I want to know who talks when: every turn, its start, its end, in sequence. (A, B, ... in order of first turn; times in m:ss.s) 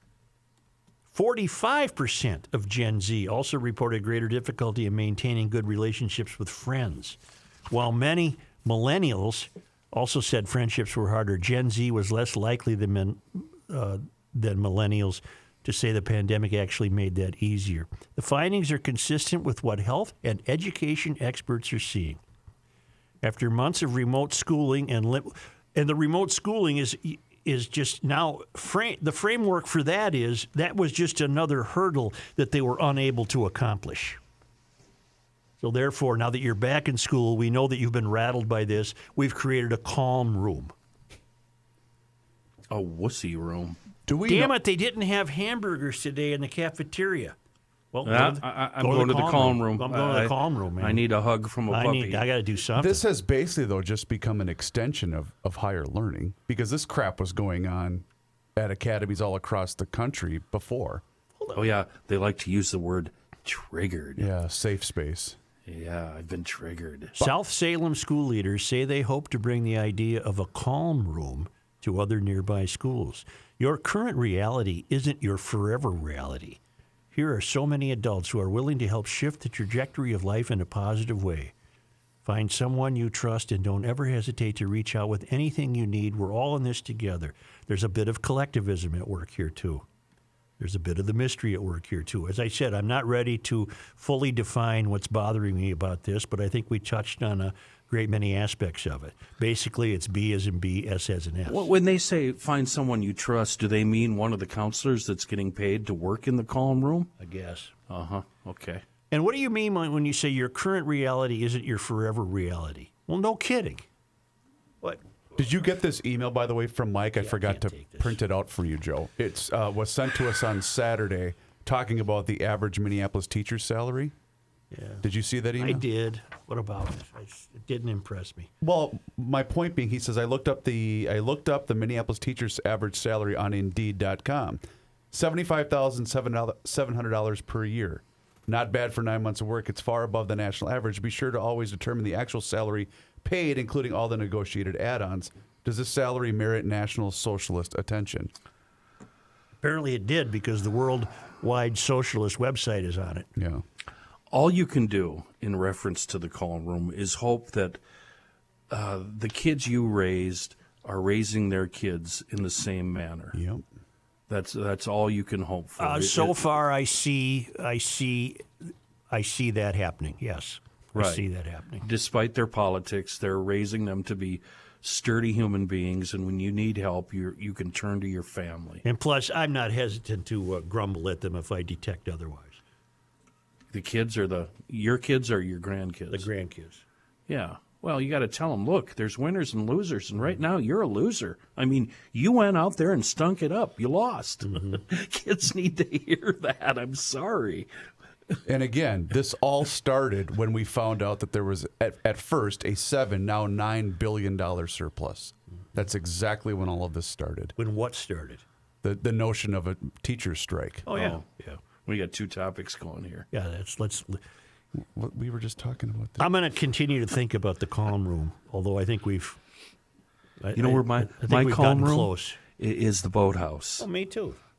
0:01.1-0:07.2 A
0:07.7-0:22.2 A
0:23.2-0:34.2 A
0:35.6-0:40.7 A
0:42.7-0:43.8 B
0:44.1-0:44.5 C
0:44.3-0:47.4 A
0:47.9-0:51.0 A
0:48.0-0:52.2 B
0:51.7-0:53.0 A
0:52.8-1:01.0 C
1:01.5-1:04.3 B
1:04.2-1:05.4 C
1:05.7-1:07.3 B
1:07.2-1:16.6 A
1:17.1-1:21.5 A
1:22.2-1:29.8 A
1:30.6-1:41.7 A
1:41.5-1:47.1 B
1:47.2-1:47.7 A
1:47.9-1:48.8 B
1:49.1-1:53.9 A
1:55.4-2:04.1 C
1:57.2-1:58.2 A
2:04.7-2:05.0 A
2:05.0-2:05.8 C
2:05.6-2:08.5 A
2:08.6-2:14.6 C
2:15.1-2:28.3 C
2:29.6-2:33.3 A
2:33.4-2:33.6 C
2:34.3-2:37.8 B
2:38.7-2:43.4 B
2:43.3-2:43.6 C
2:44.3-2:46.5 B
2:45.8-2:48.5 A
2:49.1-2:51.8 A
2:51.0-2:51.2 B
2:51.8-2:58.8 B
2:58.8-3:02.6 A
3:03.7-3:06.3 B
3:06.1-3:06.8 A
3:07.3-3:17.7 B
3:14.4-3:14.8 A
3:18.5-3:27.5 C
3:27.6-3:28.4 A
3:28.8-3:30.9 C
3:30.9-3:31.6 A
3:30.9-3:31.2 B
3:31.9-3:33.3 B
3:33.3-3:34.2 A
3:34.8-3:36.3 C
3:36.2-3:39.4 A
3:40.4-3:42.4 A
3:40.6-3:43.8 B
3:43.8-3:44.4 A